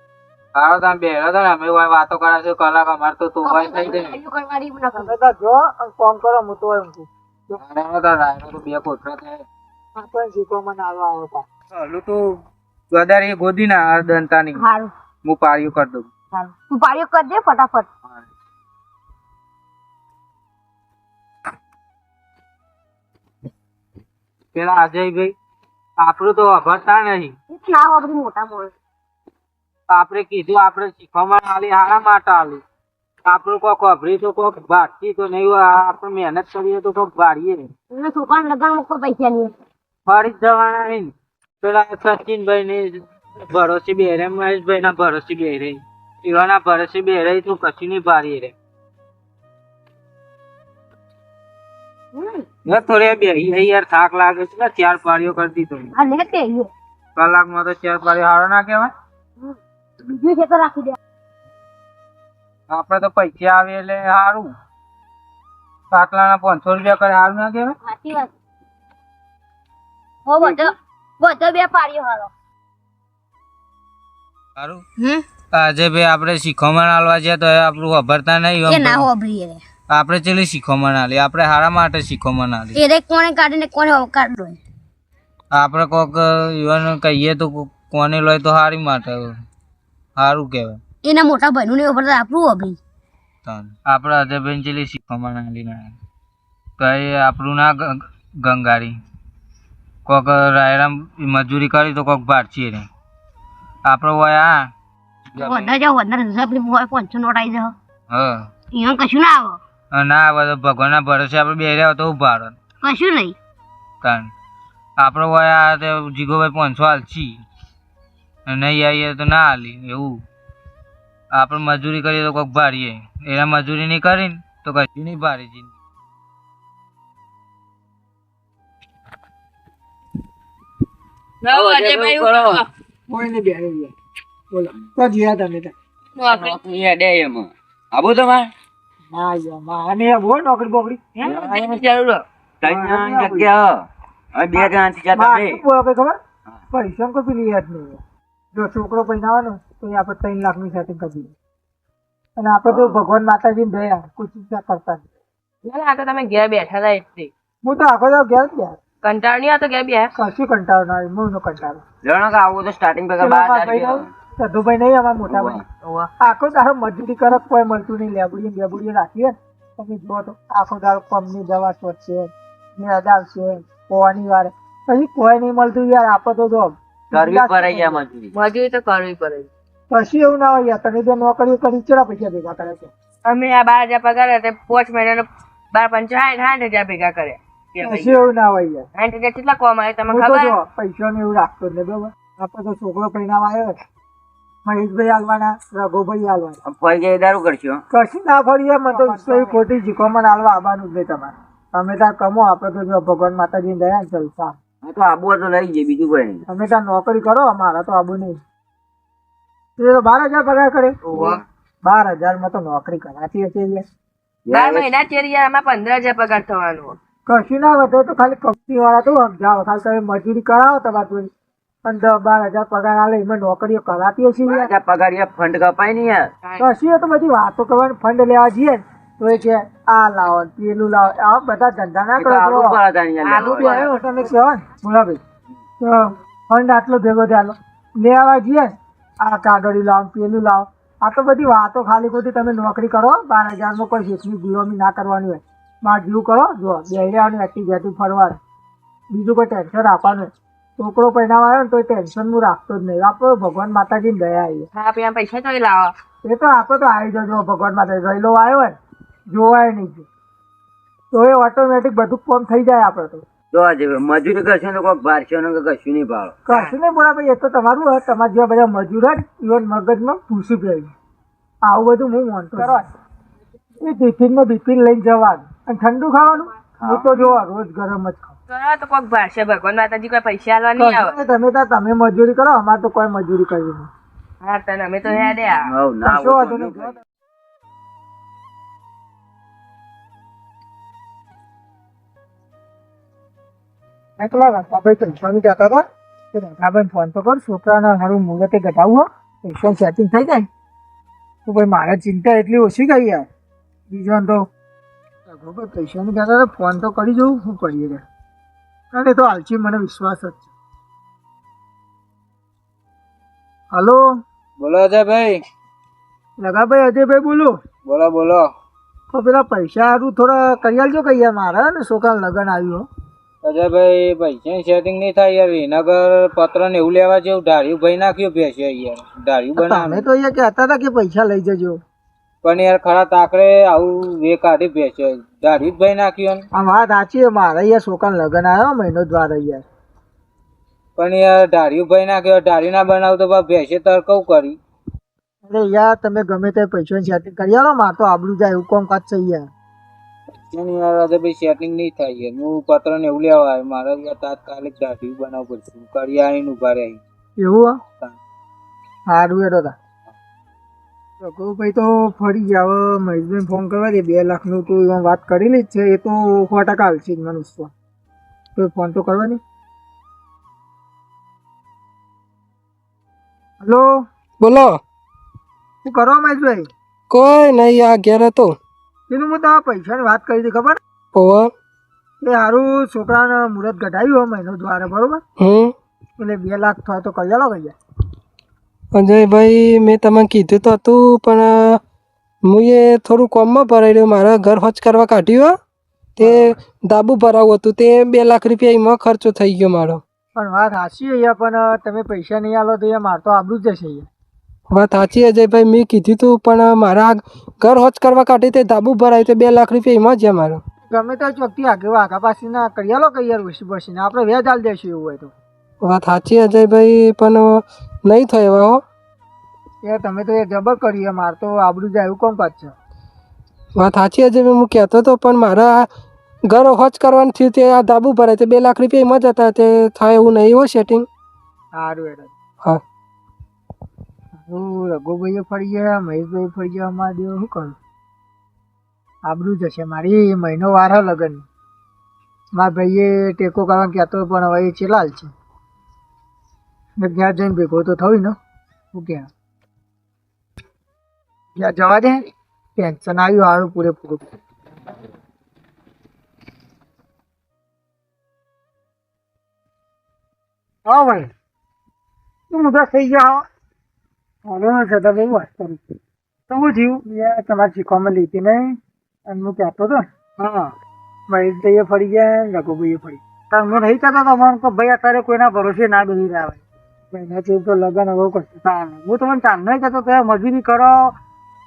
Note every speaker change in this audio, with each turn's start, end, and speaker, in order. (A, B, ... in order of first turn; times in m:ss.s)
0:00.6-0:04.2 A
0:03.4-0:05.1 B
0:04.9-0:07.6 C
0:07.6-0:09.4 A
0:10.0-0:11.5 C
0:11.7-0:12.2 A
0:12.9-0:14.6 A
0:14.6-0:14.9 B
0:15.2-0:16.1 A
0:16.3-0:17.9 B
0:24.6-0:25.4 A
0:26.0-0:27.4 A
0:27.5-0:28.7 B
0:29.9-0:32.6 A
0:33.3-0:37.7 A
0:37.9-0:39.6 B
0:40.1-0:48.5 A
0:52.1-0:52.4 B
0:52.6-0:55.9 A
0:56.0-0:56.7 B
0:57.2-0:58.9 A
0:59.4-1:01.0 B
1:02.7-1:04.5 A
1:05.9-1:07.8 A
1:07.8-1:08.3 B
1:10.3-1:12.3 B
1:14.6-1:14.8 A
1:15.0-1:15.2 B
1:15.5-1:19.0 A
1:18.7-1:19.6 B
1:19.9-1:22.8 A
1:22.8-1:24.6 B
1:25.5-1:29.3 A
1:30.2-1:30.8 A
1:31.0-1:32.8 B
1:33.4-1:36.0 A
1:36.8-1:39.0 A
1:40.1-1:42.9 A
1:43.9-1:44.7 A
1:45.4-1:47.7 B
1:45.4-1:45.7 A
1:48.1-1:48.5 A
1:48.7-1:49.6 B
1:49.9-1:52.6 A
1:52.8-1:53.4 B
1:54.0-1:54.3 A
1:55.0-1:57.4 A
1:58.5-2:00.2 A
2:01.3-2:05.7 A
2:11.4-2:12.7 D
2:11.5-2:12.6 E
2:13.1-2:13.9 C
2:14.5-2:15.7 C
2:16.2-2:16.6 D
2:16.3-2:18.5 E
2:19.1-2:21.0 C
2:21.2-2:22.2 D
2:21.2-2:21.8 E
2:22.6-2:23.8 E
2:22.6-2:23.5 C
2:24.4-2:25.6 E
2:24.5-2:26.2 C
2:26.7-2:28.0 C
2:28.5-2:31.3 C
2:32.4-2:35.0 C
2:32.7-2:33.0 E
2:35.6-2:37.3 D
2:37.6-2:38.8 C
2:39.0-2:40.1 D
2:40.2-2:41.8 C
2:42.0-2:44.1 E
2:43.2-2:45.6 C
2:45.3-2:46.1 E
2:46.2-2:58.0 C
2:57.1-2:58.3 E
2:58.3-2:59.5 D
2:59.9-3:02.9 C
3:03.2-3:08.2 D
3:07.8-3:08.9 C
3:09.0-3:10.6 D
3:10.1-3:13.8 C
3:14.7-3:16.6 C
3:16.6-3:17.8 E
3:17.9-3:24.6 C
3:18.9-3:19.6 F
3:24.8-3:26.4 E
3:26.5-3:28.4 C
3:29.8-3:33.8 C
3:31.0-3:31.4 E
3:34.5-3:34.9 E
3:34.5-3:37.0 D
3:37.3-3:41.3 C
3:41.8-3:44.7 C
3:44.4-3:46.3 E
3:46.6-3:52.8 C
3:52.2-3:53.9 E
3:53.2-3:53.9 D
3:53.3-3:55.2 C
3:55.8-4:08.4 C
4:09.1-4:14.7 C
4:14.7-4:15.9 D
4:16.2-4:18.8 C
4:19.3-4:20.1 C
4:21.1-4:23.2 C
4:23.5-4:26.4 E
4:26.5-4:30.9 C
4:31.6-4:32.9 C
4:33.8-4:38.4 C
4:36.8-4:37.4 E
4:38.5-4:41.2 D
4:40.8-4:43.9 C
4:44.4-4:45.7 D
4:45.0-4:47.0 E
4:46.0-4:47.0 C
4:54.2-5:00.5 C
5:01.5-5:03.3 C
5:03.9-5:04.5 C
5:05.3-5:08.0 C
5:08.9-5:10.5 C
5:13.7-5:14.0 C
5:14.6-5:15.4 A
5:16.4-5:17.6 C
5:17.8-5:18.5 A
5:19.1-5:22.9 C
5:23.4-5:30.1 A
5:29.6-5:31.8 C
5:32.4-5:36.5 A
5:36.5-5:39.6 C
5:41.0-5:44.6 A
5:45.5-5:49.5 C
5:50.5-5:57.0 A
5:57.4-5:57.8 C
5:59.1-5:59.8 C
6:01.2-6:07.7 C
6:08.6-6:09.4 C
6:13.6-6:13.9 C
6:14.4-6:14.8 G
6:15.8-6:16.7 C
6:17.1-6:18.6 G
6:19.1-6:20.8 C
6:21.2-6:21.5 G
6:22.2-6:25.2 C
6:25.4-6:25.7 G
6:26.2-6:27.8 C
6:28.9-6:31.8 G
6:32.4-6:35.6 G
6:36.2-6:40.0 G
6:36.2-6:36.5 C
6:40.4-6:44.1 C
6:44.7-6:50.6 G
6:50.9-6:55.3 C
6:55.8-6:58.8 G
6:59.8-7:02.7 C
7:03.8-7:05.9 G
7:06.5-7:11.1 G
7:11.8-7:12.3 C
7:14.4-7:17.8 C
7:19.2-7:21.4 C
7:22.5-7:25.3 C
7:27.0-7:28.4 C
7:28.9-7:29.3 C
7:31.6-7:32.3 C
7:32.8-7:34.4 C
7:40.9-7:41.3 F
7:42.5-7:43.4 F
7:44.4-7:45.8 C
7:46.5-7:47.0 F
7:47.0-7:50.1 C
7:50.4-7:50.7 F
7:51.3-7:53.2 C
7:53.5-7:56.6 F
7:57.1-7:58.5 C
7:58.6-8:01.1 F